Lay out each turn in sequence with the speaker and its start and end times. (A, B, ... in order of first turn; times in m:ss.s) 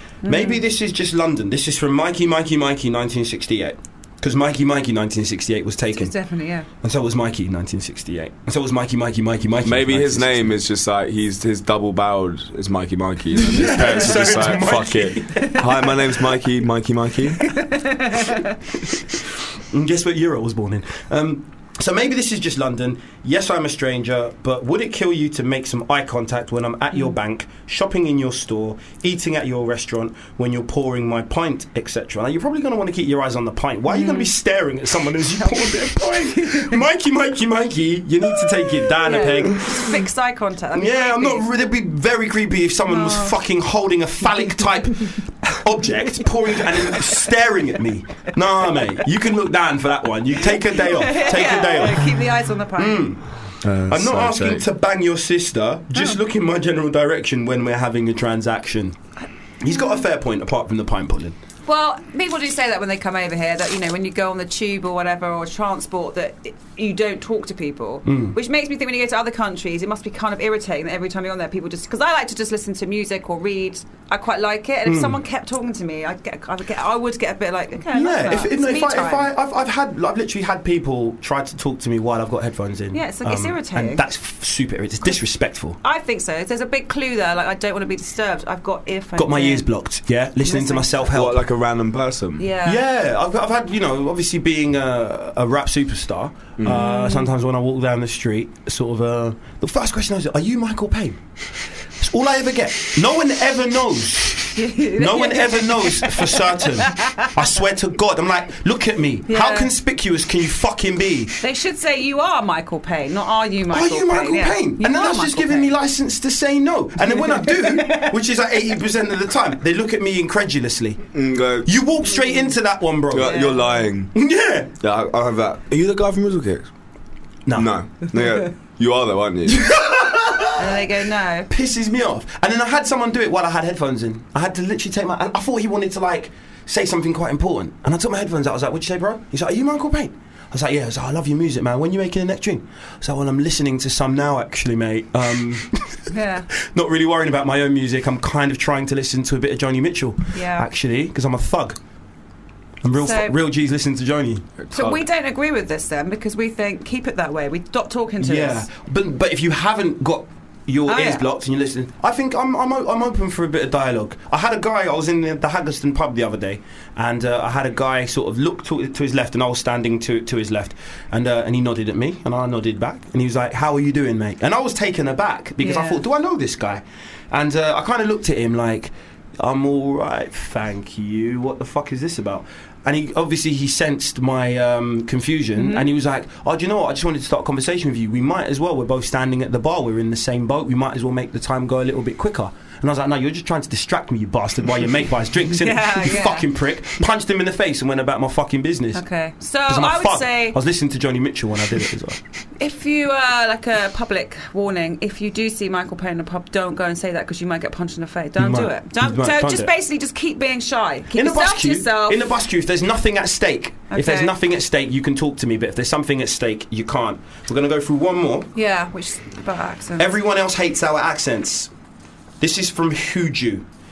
0:00.2-0:00.6 A
0:00.2-0:06.1 B
0:05.9-0:06.7 A
0:06.8-0:10.5 B
0:09.6-0:17.5 C
0:13.3-0:16.1 B
0:17.7-0:18.5 A
0:19.7-0:40.0 B
0:33.9-0:34.3 A
0:35.4-0:36.8 A
0:38.8-0:41.5 A
0:40.7-0:52.2 B
0:42.9-0:43.3 A
0:50.7-0:53.0 A
0:52.7-0:53.3 B
0:53.6-0:54.6 C
0:53.9-0:59.0 B
0:59.6-1:01.3 B
0:59.7-1:00.0 A
1:01.7-1:19.3 A
1:08.0-1:08.4 B
1:14.8-1:15.2 B
1:17.9-1:25.8 B
1:22.9-1:24.0 A
1:25.8-1:29.7 A
1:29.2-1:31.4 B
1:30.4-1:31.1 A
1:31.1-1:32.5 C
1:32.4-1:32.8 A
1:32.6-1:41.2 B
1:36.6-1:36.8 C
1:36.6-1:37.3 A
1:42.0-1:51.4 B
1:44.5-1:47.3 A
1:49.3-1:49.7 A
1:51.4-1:55.7 A
1:53.7-2:03.5 B
1:57.4-1:58.1 A
2:01.1-2:01.7 C
2:03.1-2:04.1 C
2:03.2-2:03.8 A
2:04.1-2:04.7 B
2:04.8-2:06.7 C
2:07.4-2:07.7 B
2:07.5-2:09.8 C
2:09.5-2:10.9 B
2:10.6-2:11.5 A
2:11.5-2:26.1 B
2:26.1-2:26.5 A
2:26.6-2:31.8 B
2:30.3-2:30.6 A
2:32.8-2:34.5 B
2:33.0-2:33.4 A
2:34.6-2:35.0 C
2:34.7-2:38.7 A
2:38.2-3:19.0 B
2:40.9-2:41.2 A
2:55.6-2:56.0 A
3:05.6-3:05.8 A
3:15.5-3:16.5 A
3:18.9-3:20.6 A
3:19.7-3:22.2 B
3:22.6-3:32.3 A
3:28.4-3:29.7 B
3:31.1-3:38.5 B
3:33.9-3:34.3 A
3:38.5-3:40.1 A
3:40.0-3:41.7 B
3:42.4-3:43.6 B